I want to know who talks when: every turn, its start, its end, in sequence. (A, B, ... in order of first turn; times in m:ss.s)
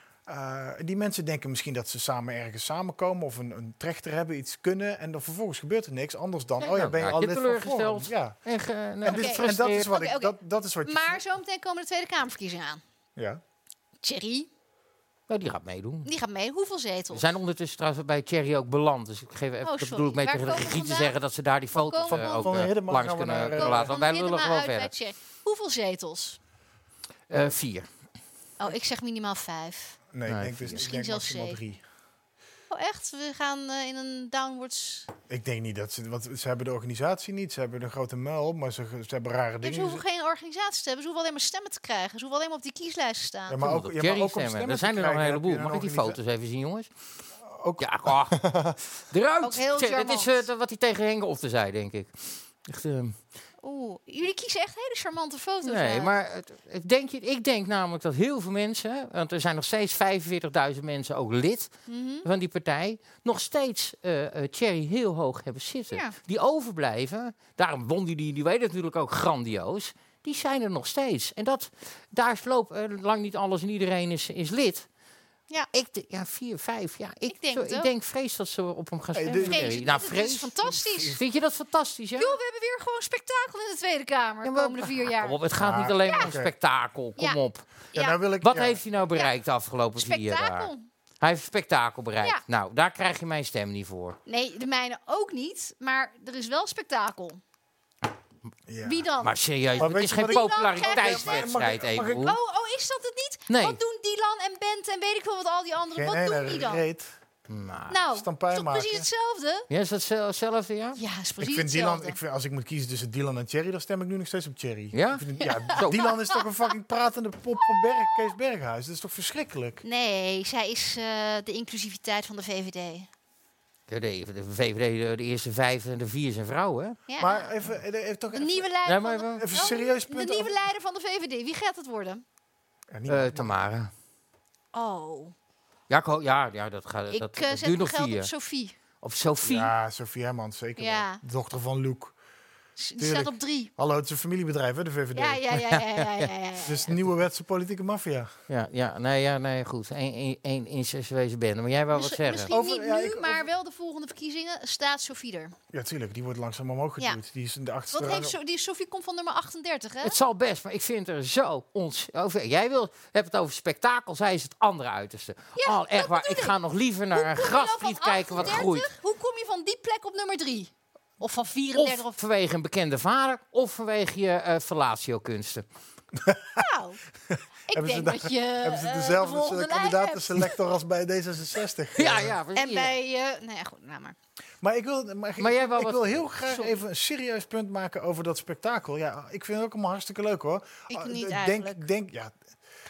0:00.3-0:08.4 A
0:06.6-0:10.0 B
0:09.0-0:11.2 A
0:09.1-0:12.8 C
0:13.2-0:13.4 A
0:14.0-0:14.5 C
0:15.3-0:16.1 B
0:16.0-0:17.2 C
0:17.1-0:24.9 B
0:19.6-0:21.2 C
0:21.8-0:22.6 C
0:22.0-0:24.0 A
0:23.6-0:26.4 C
0:27.3-0:27.9 B
0:28.6-0:30.0 C
0:30.1-0:31.8 A
0:30.3-0:30.8 B
0:30.8-0:31.6 C
0:32.7-0:35.1 C
0:35.3-0:40.0 A
0:39.6-0:43.6 C
0:43.5-0:46.2 A
0:43.6-0:46.9 B
0:47.5-0:48.8 A
0:47.8-0:48.4 B
0:49.1-0:53.2 B
0:49.4-0:50.5 C
0:53.6-0:56.1 C
0:55.6-1:01.7 B
1:01.9-1:02.3 C
1:02.2-1:14.9 B
1:15.7-1:20.6 B
1:17.3-1:17.9 C
1:19.2-1:19.8 A
1:19.4-1:21.2 C
1:20.6-1:21.2 A
1:21.2-1:22.4 B
1:22.2-1:25.4 C
1:24.4-1:27.7 B
1:25.6-1:26.5 A
1:26.0-1:26.3 C
1:27.9-1:28.8 A
1:28.4-1:30.7 B
1:30.0-1:30.9 C
1:31.2-1:34.2 B
1:34.3-1:37.4 C
1:38.7-1:39.1 A
1:38.8-1:41.5 C
1:39.2-1:42.4 B
1:39.8-1:42.3 A
1:42.2-1:46.8 C
1:43.5-1:43.8 B
1:46.0-1:47.2 A
1:47.5-1:48.0 B
1:47.9-1:49.7 C
1:48.1-1:49.1 A
1:49.7-1:51.0 B
1:51.0-1:52.2 C
1:51.4-1:59.8 A
1:54.9-1:56.1 B
1:55.4-1:56.4 C
1:59.8-2:03.1 C
2:03.9-2:07.0 B
2:07.1-2:07.5 C
2:07.2-2:08.7 A
2:08.3-2:12.2 C
2:08.9-2:09.5 B
2:09.3-2:10.6 A
2:12.9-2:13.5 A
2:13.1-2:13.9 B
2:14.7-2:15.3 C
2:15.9-2:18.3 B
2:17.1-2:18.8 C
2:19.0-2:19.7 B
2:19.4-2:22.2 A
2:20.8-2:21.2 C
2:22.8-2:23.7 C
2:23.0-2:25.4 A
2:25.1-2:27.0 C
2:25.6-2:26.2 B
2:26.6-2:28.3 A
2:28.5-2:32.5 B
2:31.9-2:35.6 C
2:32.5-2:33.5 A
2:35.7-2:38.4 A
2:37.9-2:40.2 C
2:40.0-2:48.9 B
2:45.6-2:46.6 C
2:47.1-2:52.2 C
2:51.8-2:55.6 B
2:56.1-2:56.6 A
2:56.6-2:57.0 C
2:57.3-3:02.4 A
2:57.7-3:00.6 C
3:02.0-3:03.0 B
3:02.6-3:04.2 C
3:04.6-3:12.4 A
3:05.4-3:06.2 B
3:06.5-3:06.8 C
3:10.9-3:11.8 C